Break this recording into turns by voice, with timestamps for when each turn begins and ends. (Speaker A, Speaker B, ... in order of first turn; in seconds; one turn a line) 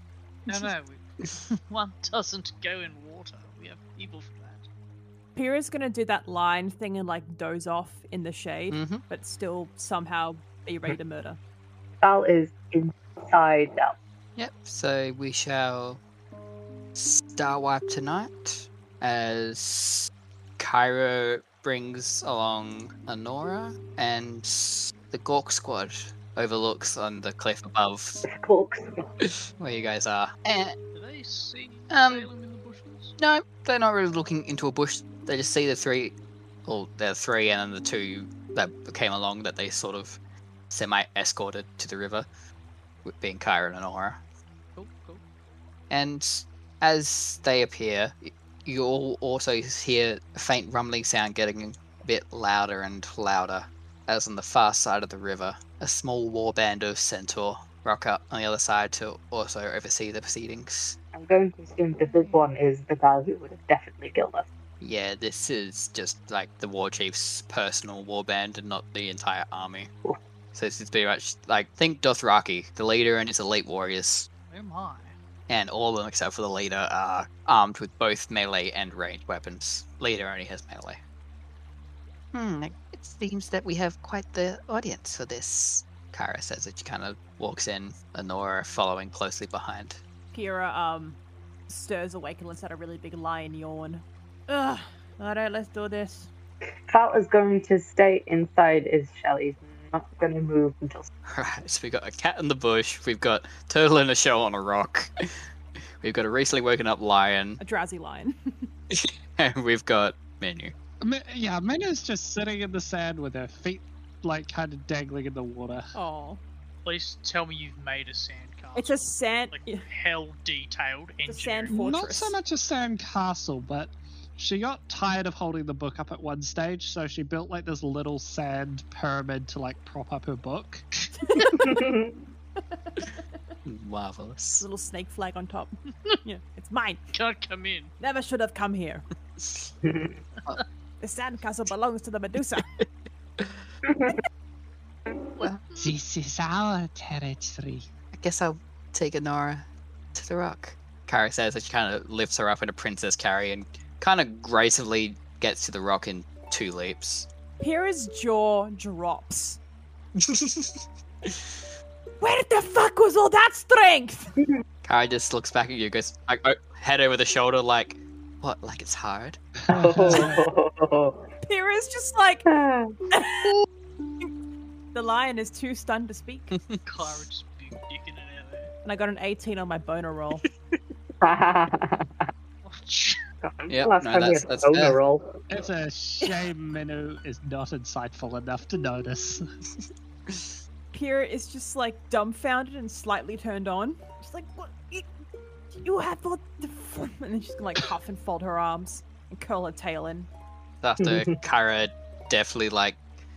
Speaker A: 0.5-4.7
Speaker B: 5.3-11.4
Speaker C: 8.7-9.0
Speaker D: 12.0-13.9
Speaker C: 14.4-16.0
Speaker C: 16.9-28.2
Speaker D: 28.2-29.0
Speaker C: 29.2-30.8
Speaker A: 30.9-33.1
Speaker C: 31.9-32.3
Speaker C: 33.2-40.2
Speaker C: 40.7-42.3
Speaker C: 43.0-44.2
Speaker A: 44.8-45.2
Speaker C: 45.9-61.0
Speaker D: 61.1-64.5
Speaker C: 64.8-69.9
Speaker C: 70.5-74.3
Speaker A: 74.5-75.2
Speaker C: 75.5-81.0
Speaker C: 82.3-90.0
Speaker B: 90.3-96.3
Speaker D: 96.9-101.1
Speaker C: 101.3-105.1
Speaker C: 106.0-107.6
Speaker B: 107.6-108.7
Speaker C: 108.9-110.7
Speaker E: 111.0-115.8
Speaker B: 115.9-116.4
Speaker A: 116.8-121.8
Speaker B: 118.8-119.9
Speaker B: 121.3-122.4
Speaker E: 121.7-130.9
Speaker B: 131.2-131.8
Speaker D: 131.5-132.2
Speaker B: 132.6-133.4
Speaker C: 133.7-134.6
Speaker B: 134.6-137.0
Speaker A: 137.1-137.9
Speaker B: 138.0-139.1
Speaker C: 139.4-139.7
Speaker D: 139.8-140.2
Speaker B: 141.0-142.7
Speaker C: 143.4-143.7
Speaker D: 143.8-144.2
Speaker A: 145.4-145.9
Speaker E: 145.8-147.9
Speaker C: 148.1-157.3
Speaker B: 157.6-159.6
Speaker C: 160.2-161.6
Speaker B: 162.2-164.3
Speaker C: 164.8-169.4
Speaker D: 169.7-171.2
Speaker E: 169.7-170.4
Speaker B: 171.4-172.5
Speaker D: 172.5-172.9
Speaker B: 173.1-173.5
Speaker B: 174.9-176.5
Speaker C: 176.5-176.8
Speaker A: 176.9-178.7
Speaker B: 178.8-180.4
Speaker D: 181.2-182.1
Speaker A: 182.6-183.2
Speaker D: 183.4-185.4
Speaker C: 183.7-185.0
Speaker E: 185.5-189.4
Speaker C: 190.3-190.6
Speaker B: 190.9-195.1
Speaker B: 195.8-200.3
Speaker C: 200.8-203.0
Speaker D: 201.0-201.4